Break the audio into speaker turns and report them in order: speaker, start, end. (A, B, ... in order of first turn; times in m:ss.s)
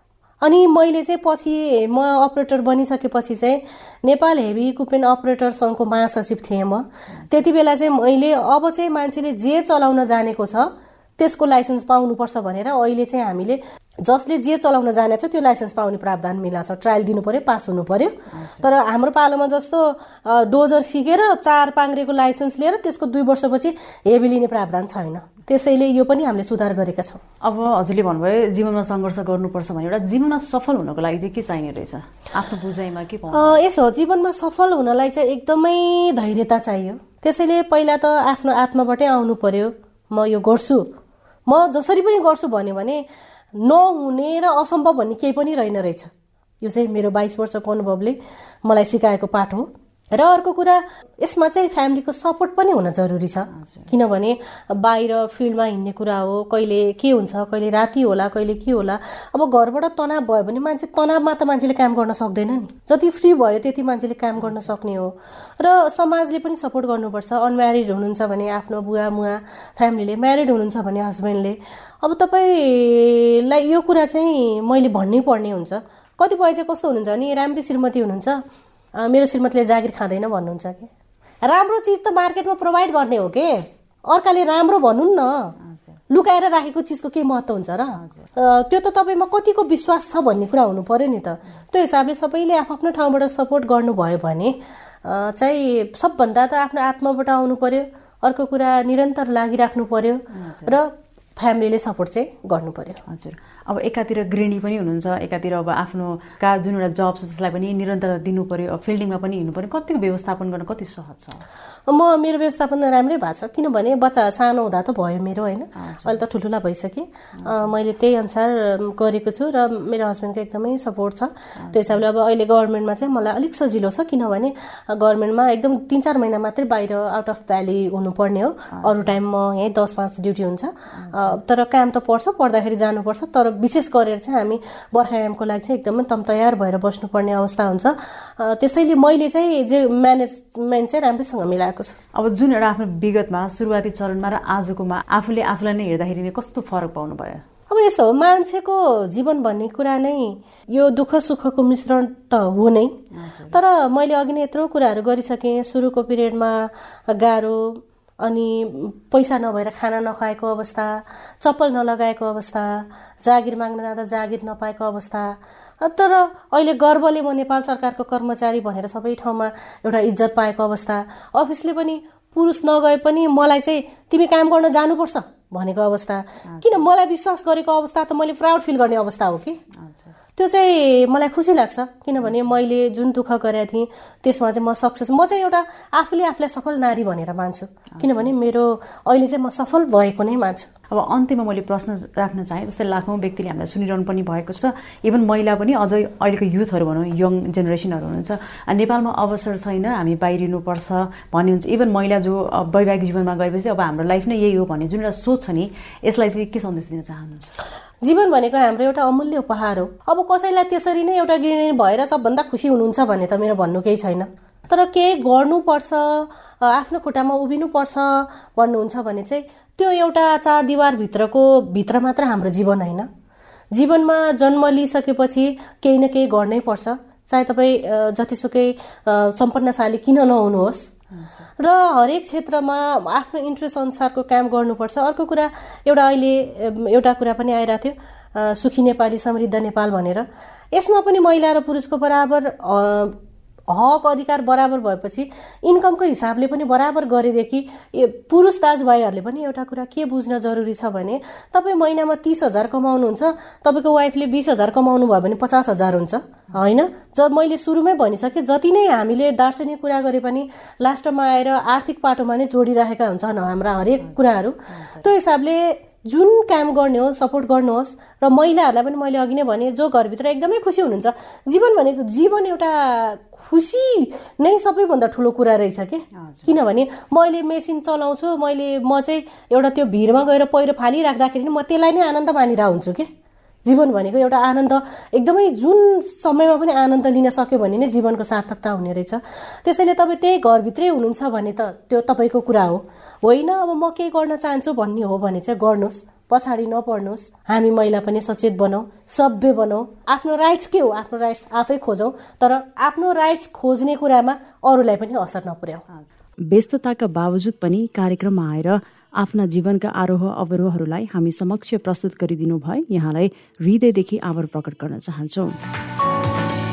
0:00.4-0:27.2 A
0:07.1-0:07.4 B
0:18.3-0:18.7 B
0:27.4-0:33.6 B
0:33.3-0:40.9 A
0:41.5-1:18.4 A
0:53.5-0:53.9 B
1:04.4-1:04.7 B
1:19.0-1:20.9 A
1:21.4-1:25.5 A
1:25.6-1:26.0 B
1:26.1-1:43.0 A
1:28.0-1:28.3 B
1:40.3-1:40.8 B
1:43.1-1:51.4 B
1:51.9-2:22.0 A
1:55.8-1:56.2 B
1:57.4-1:57.7 B
2:01.6-2:02.0 B
2:08.7-2:09.2 B
2:11.0-2:11.4 B
2:22.1-2:27.4 B
2:27.7-2:33.0 A
2:33.1-2:33.6 B
2:33.5-2:59.6 A
2:56.5-2:56.8 B
2:59.7-3:00.2 B
3:00.4-3:10.7 A
3:02.2-3:02.6 B
3:07.9-3:08.3 B
3:10.9-3:27.5 B
3:28.0-3:43.1 A
3:43.7-3:50.9 A
3:51.1-3:51.5 B
3:51.6-4:03.2 A
4:03.7-4:43.1 A
4:24.7-4:25.1 B
4:36.1-4:36.6 B
4:43.6-5:05.8 A
5:05.9-5:15.6 B